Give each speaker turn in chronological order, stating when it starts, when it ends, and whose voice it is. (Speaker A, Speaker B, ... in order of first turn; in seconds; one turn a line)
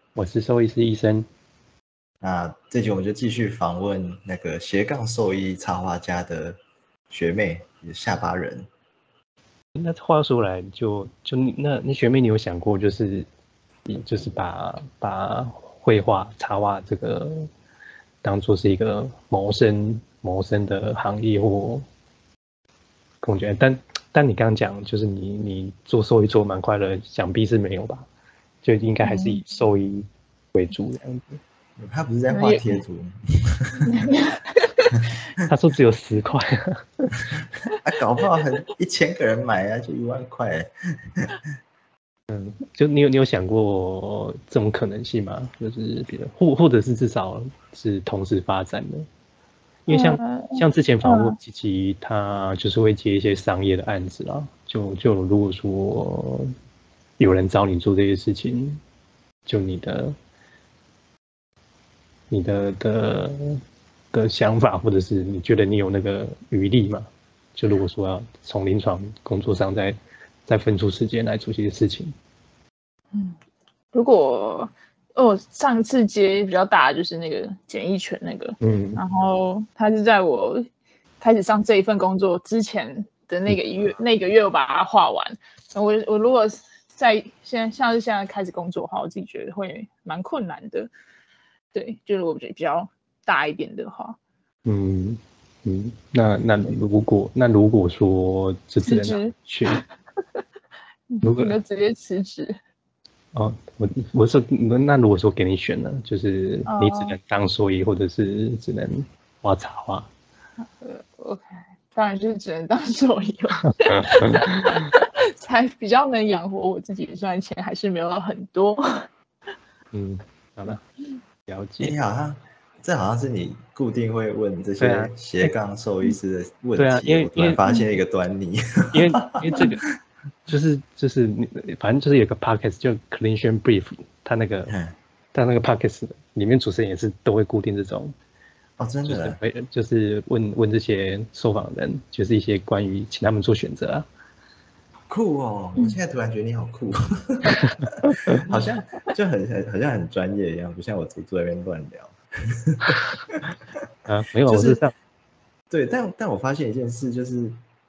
Speaker A: 0.1-1.3
Speaker B: 2.2-6.6
Speaker B: 7.1-8.7
Speaker A: 9.7-13.3
Speaker A: 13.9-17.5
Speaker A: 18.2-21.9
Speaker A: 23.2-28.1
Speaker A: 28.6-31.4
Speaker C: 29.0-29.4
Speaker B: 31.8-33.9
Speaker C: 32.3-32.8
Speaker C: 33.9-35.0
Speaker A: 35.5-37.1
Speaker B: 37.3-41.4
Speaker A: 42.3-49.1
Speaker A: 49.9-56.5
Speaker C: 49.9-51.4
Speaker A: 57.2-58.8
Speaker A: 59.5-60.1
Speaker A: 62.3-63.6
Speaker A: 64.1-72.1
Speaker C: 73.1-73.4
Speaker C: 73.9-80.7
Speaker A: 78.6-79.0
Speaker C: 81.2-90.9
Speaker C: 91.7-94.2
Speaker A: 94.7-99.8
Speaker C: 98.8-99.8
Speaker C: 101.1-102.6
Speaker A: 101.2-101.5
Speaker A: 103.3-110.1
Speaker C: 106.7-107.2
Speaker C: 110.8-119.1
Speaker A: 113.6-114.9
Speaker A: 119.9-120.8
Speaker A: 121.5-121.9
Speaker B: 121.8-129.7
Speaker A: 124.8-125.5
Speaker A: 126.8-127.6
Speaker A: 128.9-129.8
Speaker A: 130.5-134.7
Speaker B: 134.7-134.9
Speaker A: 135.3-138.1
Speaker B: 138.8-139.4
Speaker A: 139.0-144.1
Speaker B: 145.1-153.4
Speaker A: 147.7-148.4
Speaker A: 152.9-153.5
Speaker A: 154.1-154.9
Speaker B: 154.4-154.8
Speaker B: 155.7-157.6